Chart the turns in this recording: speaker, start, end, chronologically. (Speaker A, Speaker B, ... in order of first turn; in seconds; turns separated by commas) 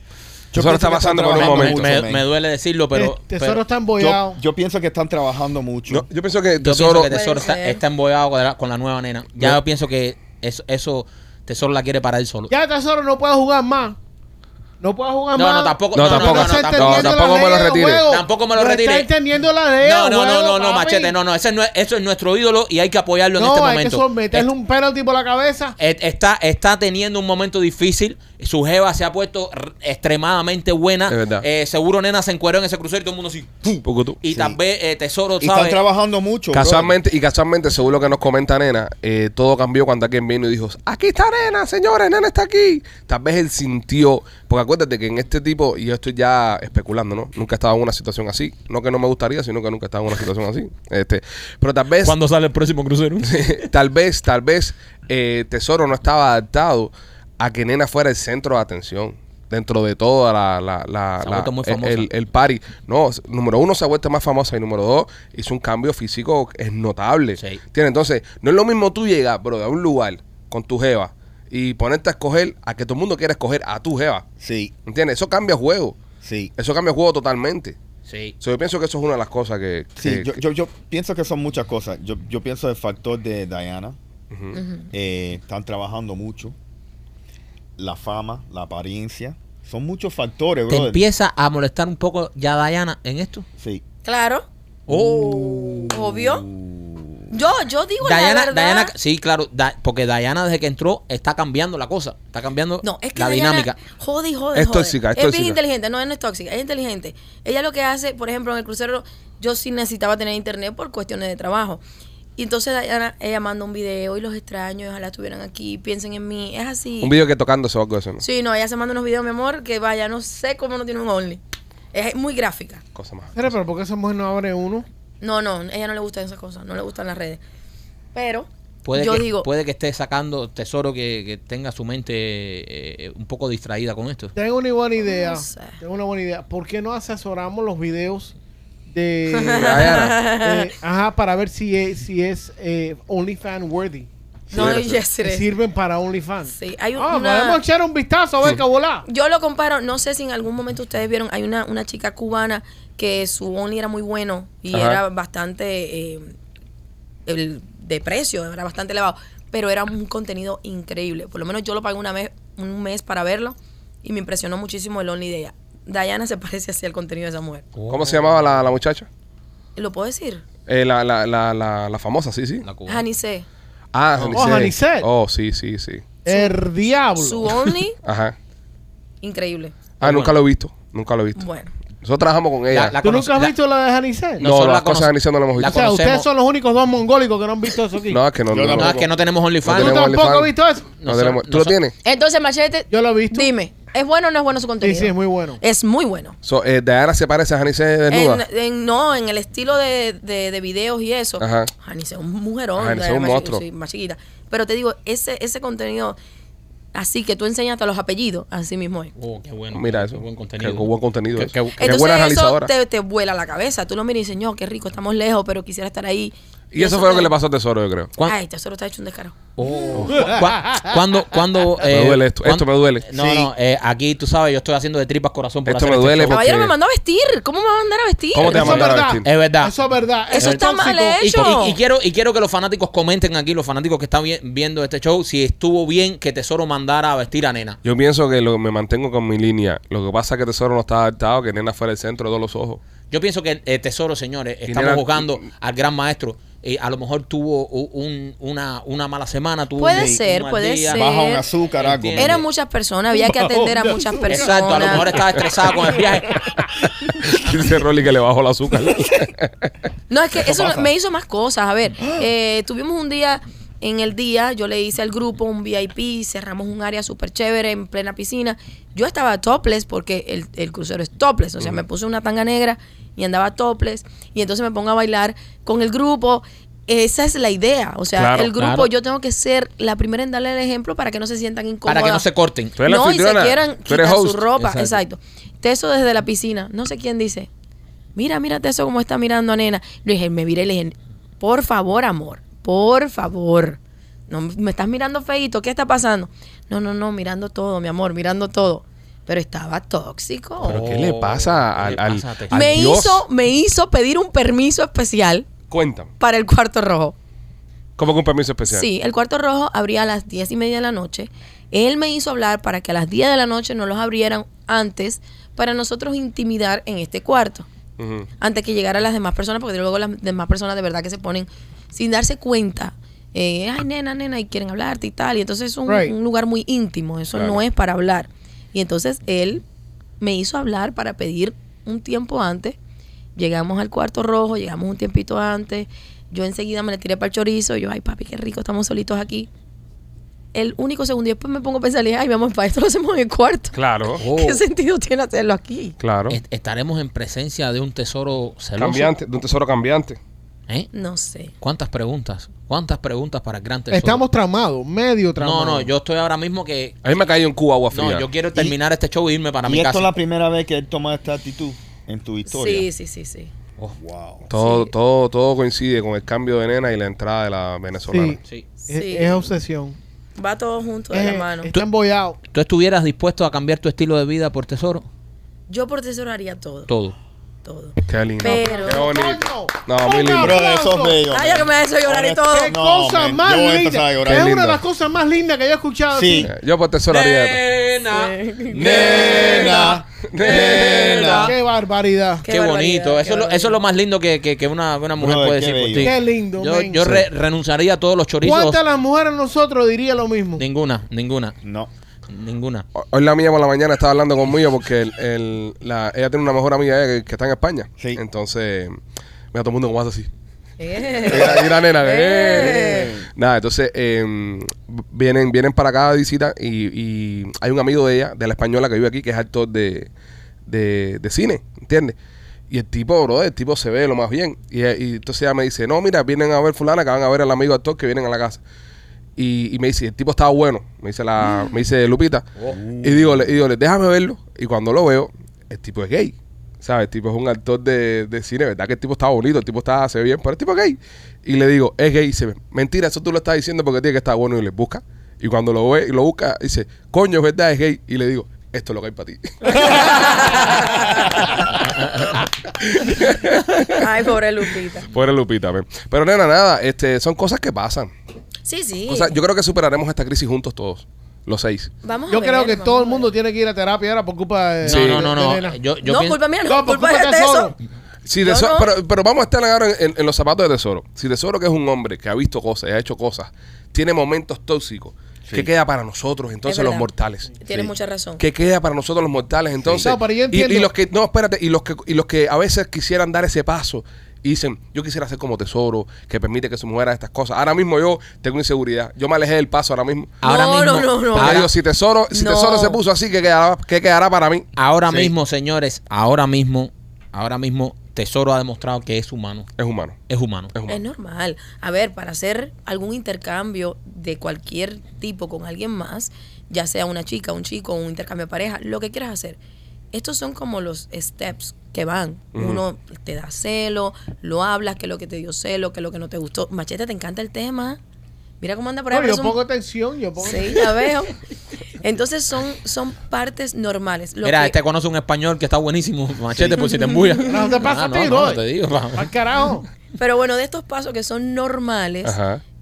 Speaker A: 0.5-2.2, Speaker B: 0.5-2.0, Speaker C: 1.2-3.6, Speaker D: 2.9-4.4, Speaker A: 4.0-6.0, Speaker B: 5.9-7.1, Speaker C: 6.6-12.5, Speaker E: 7.0-7.8, Speaker D: 12.5-14.0, Speaker D: 14.8-21.1, Speaker C: 15.3-17.3, Speaker B: 15.9-18.0, Speaker C: 18.1-19.1, Speaker C: 19.8-24.5, Speaker D: 23.4-25.7, Speaker C: 25.8-35.8, Speaker B: 31.1-31.4, Speaker B: 33.8-34.2, Speaker A: 34.2-34.6, Speaker A: 35.4-36.9, Speaker B: 36.5-52.1, Speaker C: 52.0-53.6, Speaker B: 53.2-74.2, Speaker C: 61.2-62.1, Speaker A: 74.4-74.7, Speaker B: 74.9-76.0, Speaker A: 76.2-76.5, Speaker B: 76.5-77.8, Speaker C: 78.1-78.3, Speaker B: 78.4-80.4, Speaker A: 80.0-84.0, Speaker B: 84.3-84.6, Speaker E: 84.5-84.9, Speaker A: 84.9-86.5, Speaker A: 87.8-91.0, Speaker C: 90.7-93.5, Speaker E: 94.0-94.5, Speaker A: 94.9-97.2, Speaker E: 95.8-96.4, Speaker E: 97.3-98.9, Speaker C: 98.0-103.7, Speaker E: 102.8-111.8, Speaker B: 104.5-105.6, Speaker E: 112.4-117.1, Speaker B: 117.0-118.2, Speaker E: 118.2-121.4, Speaker E: 121.9-122.8, Speaker B: 122.9-123.5, Speaker D: 123.3-124.8, Speaker E: 125.2-127.4, Speaker E: 128.1-129.5, Speaker C: 128.8-134.3, Speaker D: 134.3-138.3, Speaker E: 135.0-135.8, Speaker D: 138.9-144.1, Speaker E: 139.3-140.7, Speaker B: 139.5-140.2, Speaker B: 144.5-145.0, Speaker E: 144.5-145.5, Speaker D: 145.2-149.0, Speaker E: 146.5-147.6, Speaker E: 149.1-156.3, Speaker B: 154.7-155.0, Speaker E: 157.3-167.7, Speaker C: 167.8-168.7, Speaker B: 167.9-169.1, Speaker E: 169.8-170.4, Speaker B: 170.7-172.7, Speaker C: 172.6-173.0, Speaker E: 172.8-173.4, Speaker B: 173.9-176.2, Speaker D: 174.3-175.1, Speaker D: 176.2-177.8, Speaker E: 177.2-178.0, Speaker B: 178.0-178.3, Speaker E: 179.2-179.8, Speaker B: 180.0-181.4, Speaker C: 180.0-180.4, Speaker E: 181.3-181.7, Speaker B: 182.0-183.0, Speaker C: 182.7-183.5, Speaker D: 183.0-184.4, Speaker C: 184.4-186.3, Speaker B: 184.4-185.8, Speaker D: 185.6-188.2, Speaker B: 188.1-189.0, Speaker A: 188.5-189.1, Speaker C: 188.7-190.1, Speaker B: 189.6-191.9, Speaker D: 189.7-191.0, Speaker C: 191.0-191.8, Speaker E: 192.0-196.4, Speaker D: 192.9-193.5, Speaker D: 194.8-195.6, Speaker B: 196.4-198.4, Speaker E: 198.1-206.2, Speaker B: 201.4-201.7, Speaker B: 202.8-203.6, Speaker E: 206.9-209.1, Speaker C: 209.2-211.9, Speaker B: 209.7-212.7, Speaker E: 211.8-217.3, Speaker B: 216.7-218.1, Speaker E: 218.2-219.4, Speaker C: 219.6-226.4, Speaker B: 219.9-220.3, Speaker D: 220.1-220.9, Speaker B: 221.9-223.0, Speaker A: 223.1-223.5, Speaker B: 225.7-226.7, Speaker E: 226.3-228.9, Speaker B: 228.3-229.2, Speaker D: 228.4-231.4, Speaker C: 229.2-229.7, Speaker E: 230.3-231.8, Speaker C: 230.4-237.8, Speaker B: 237.8-242.8, Speaker C: 243.1-251.0, Speaker B: 244.7-245.4, Speaker E: 249.8-251.4, Speaker A: 249.9-250.2, Speaker A: 250.9-252.4, Speaker C: 251.8-252.4, Speaker E: 252.2-255.1, Speaker D: 253.8-254.2, Speaker C: 254.3-256.4, Speaker B: 257.2-259.7, Speaker E: 260.1-282.2, Speaker A: 260.4-260.9, Speaker B: 278.1-278.5, Speaker C: 278.6-278.9, Speaker C: 281.9-282.8, Speaker B: 282.8-284.4, Speaker E: 282.8-287.5, Speaker C: 284.6-285.0, Speaker E: 288.1-300.8, Speaker C: 300.6-302.8, Speaker B: 300.6-303.2, Speaker E: 302.5-305.5, Speaker B: 305.7-306.1, Speaker E: 306.2-307.1, Speaker B: 308.0-308.9, Speaker E: 308.7-317.7, Speaker B: 318.0-318.3, Speaker E: 318.4-329.6, Speaker D: 325.9-326.1, Speaker B: 327.3-327.6, Speaker E: 330.2-332.8, Speaker E: 333.4-339.5, Speaker E: 340.5-346.0, Speaker B: 343.7-344.2, Speaker C: 344.2-344.6, Speaker B: 346.0-346.4, Speaker C: 346.3-349.1, Speaker B: 348.8-350.2, Speaker E: 350.9-351.5, Speaker C: 351.6-354.2, Speaker D: 353.9-355.9, Speaker C: 355.4-357.0, Speaker B: 357.0-358.3, Speaker C: 357.9-360.1, Speaker A: 359.6-362.9, Speaker E: 362.4-363.5, Speaker A: 363.9-364.5, Speaker B: 364.5-368.4, Speaker E: 364.5-364.9, Speaker D: 368.1-370.0, Speaker E: 368.8-369.5, Speaker E: 370.4-371.7, Speaker D: 371.1-372.4, Speaker C: 372.5-375.1, Speaker E: 375.7-376.9, Speaker C: 376.9-377.2, Speaker E: 377.6-379.1, Speaker B: 378.1-380.6, Speaker D: 378.4-381.2, Speaker A: 380.4-384.7, Speaker E: 381.3-382.8, Speaker D: 382.5-386.5, Speaker B: 384.2-384.8, Speaker A: 386.1-386.5, Speaker B: 386.4-387.6, Speaker C: 387.1-391.5, Speaker E: 388.1-389.2, Speaker A: 388.7-391.5, Speaker B: 388.9-391.5, Speaker D: 391.1-392.4, Speaker E: 392.4-393.8, Speaker C: 392.5-398.8, Speaker A: 395.2-396.1, Speaker D: 396.0-397.2, Speaker D: 398.4-400.6, Speaker C: 400.6-401.6, Speaker A: 401.6-401.9, Speaker C: 402.3-402.9, Speaker B: 403.0-409.0, Speaker B: 409.5-410.3, Speaker E: 410.8-413.1, Speaker A: 411.2-411.7, Speaker B: 411.2-420.1, Speaker A: 412.6-413.2, Speaker B: 420.7-422.1, Speaker B: 422.7-428.6, Speaker B: 429.4-451.9, Speaker A: 432.7-433.5, Speaker E: 449.7-451.5, Speaker B: 452.4-454.1, Speaker E: 453.9-455.1, Speaker B: 455.0-458.1, Speaker E: 458.6-459.4, Speaker B: 459.1-461.9, Speaker E: 462.0-463.3, Speaker D: 462.3-465.8, Speaker C: 464.8-466.4, Speaker B: 464.8-465.3, Speaker E: 466.0-467.7, Speaker D: 466.6-467.8, Speaker B: 468.3-490.3, Speaker E: 468.4-468.9, Speaker A: 475.4-475.7, Speaker E: 476.6-478.4, Speaker A: 479.8-480.1, Speaker D: 480.0-480.9, Speaker C: 490.4-491.7, Speaker E: 490.4-491.7, Speaker B: 491.3-495.3, Speaker E: 492.3-493.0, Speaker C: 494.8-499.7, Speaker B: 499.8-500.2, Speaker C: 500.3-500.7, Speaker B: 500.7-501.0, Speaker E: 500.9-509.6, Speaker E: 510.1-518.0, Speaker B: 512.5-512.8, Speaker E: 518.6-519.6, Speaker D: 519.1-521.1, Speaker E: 520.4-521.4, Speaker E: 522.0-524.8, Speaker C: 524.4-529.3, Speaker E: 526.8-527.6, Speaker D: 527.4-529.8, Speaker E: 530.2-532.4, Speaker B: 532.2-532.6